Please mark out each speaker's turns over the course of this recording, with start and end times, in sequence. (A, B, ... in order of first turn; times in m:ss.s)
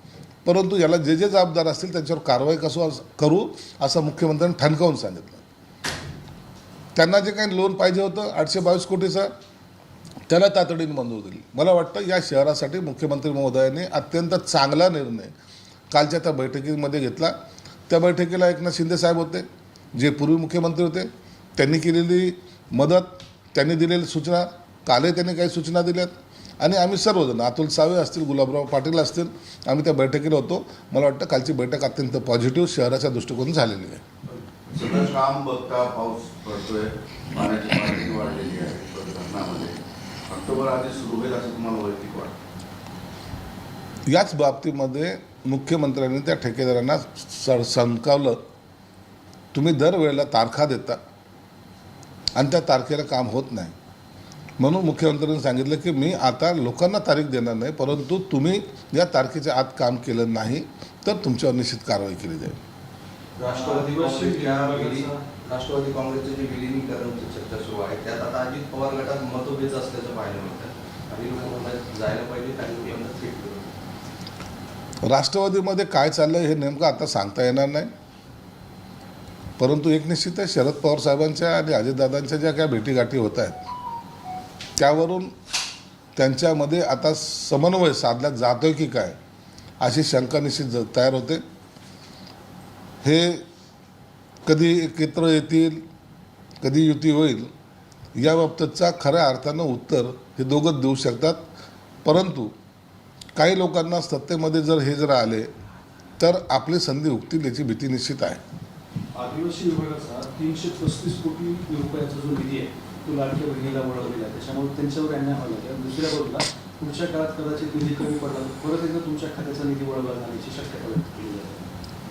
0:00.4-0:05.4 A
0:06.9-0:09.3 A
0:10.3-0:15.3 A
0:15.9-0:17.3 A
0:17.9-0:34.0 A
0:34.7-0:42.4 B
0:44.1-0:48.4 A
0:49.5-0:51.0 A
0:52.3-0:53.7 A
0:54.6-1:02.6 A
1:03.4-1:13.7 C
1:03.5-1:05.2 D
1:15.0-1:17.9 A
1:19.6-1:23.7 A
1:24.8-1:25.3 A
1:26.2-1:29.2 A
1:29.8-1:31.4 A
1:33.0-1:33.4 A
1:34.4-1:35.8 A
1:36.6-1:37.5 A
1:38.2-1:41.4 A
1:42.0-1:42.5 A
1:43.4-1:45.5 A
1:46.2-1:48.4 A
1:49.1-2:01.7 D